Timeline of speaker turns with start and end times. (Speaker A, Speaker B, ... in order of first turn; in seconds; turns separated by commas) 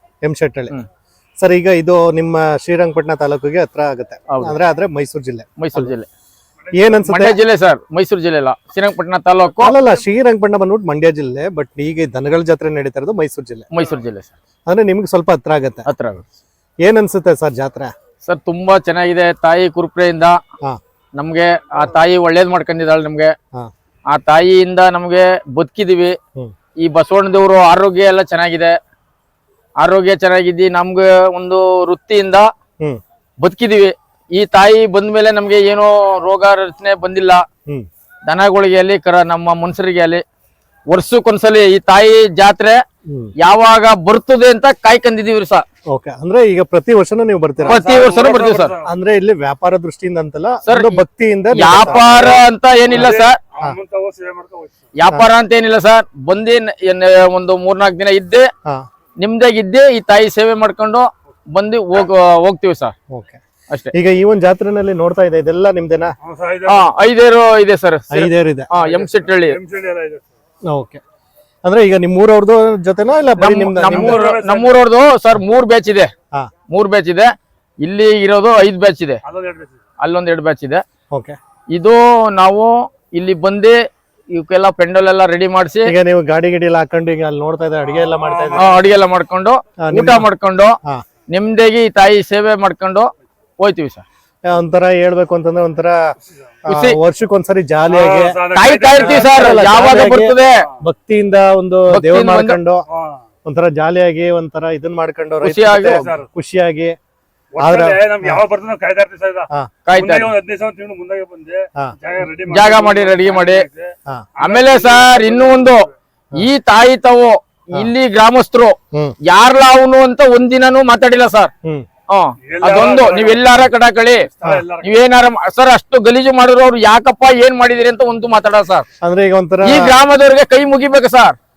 Speaker A: 0.2-0.8, Speaker A: 1.4-5.9, Speaker B: 4.3-4.6, Speaker B: 5.6-6.1, Speaker C: 6.7-7.1, Speaker A: 6.7-7.4, Speaker B: 7.1-9.7, Speaker A: 9.6-13.7, Speaker B: 13.7-14.3, Speaker A: 14.7-15.8, Speaker B: 15.9-16.2, Speaker A: 16.8-17.9, Speaker B: 18.2-20.4, Speaker B: 21.2-23.3, Speaker B: 24.1-26.2, Speaker B: 26.8-28.8, Speaker B: 29.8-32.5, Speaker B: 33.4-37.5, Speaker B: 38.3-40.2, Speaker B: 40.9-42.8, Speaker A: 43.1-43.3, Speaker B: 43.4-45.6, Speaker A: 45.9-47.8, Speaker C: 47.6-48.9, Speaker B: 47.7-48.8, Speaker A: 48.8-52.4, Speaker B: 50.7-51.0, Speaker B: 51.5-53.4, Speaker C: 52.0-52.4, Speaker C: 52.9-54.9, Speaker B: 55.0-58.5, Speaker B: 59.2-63.0, Speaker A: 63.1-63.4, Speaker A: 63.9-66.1, Speaker C: 66.2-66.9, Speaker B: 66.7-69.6, Speaker A: 68.1-68.7, Speaker C: 68.8-70.3, Speaker A: 70.7-71.0, Speaker A: 71.6-74.2, Speaker B: 73.4-76.1, Speaker C: 73.9-74.8, Speaker B: 76.7-77.3, Speaker B: 77.8-79.2, Speaker C: 79.2-79.8, Speaker B: 80.0-80.8, Speaker B: 81.7-83.8, Speaker B: 84.3-85.9, Speaker A: 85.8-88.8, Speaker C: 88.0-88.8, Speaker B: 88.5-90.8, Speaker A: 89.8-90.3, Speaker B: 91.3-94.0, Speaker A: 94.5-96.0, Speaker B: 96.7-97.0, Speaker A: 96.7-98.4, Speaker C: 97.9-100.0, Speaker B: 98.5-100.7, Speaker A: 98.9-102.8, Speaker C: 100.6-100.8, Speaker B: 101.9-102.6, Speaker C: 102.9-103.2, Speaker A: 103.5-107.0, Speaker B: 105.4-106.0, Speaker C: 105.9-106.3, Speaker C: 107.5-115.9, Speaker A: 107.6-108.4, Speaker B: 109.8-110.3, Speaker B: 112.5-113.7, Speaker B: 114.4-121.5, Speaker B: 122.1-124.3, Speaker C: 122.5-123.6, Speaker C: 124.3-125.0, Speaker B: 124.8-128.9, Speaker A: 129.0-129.9, Speaker B: 129.6-131.4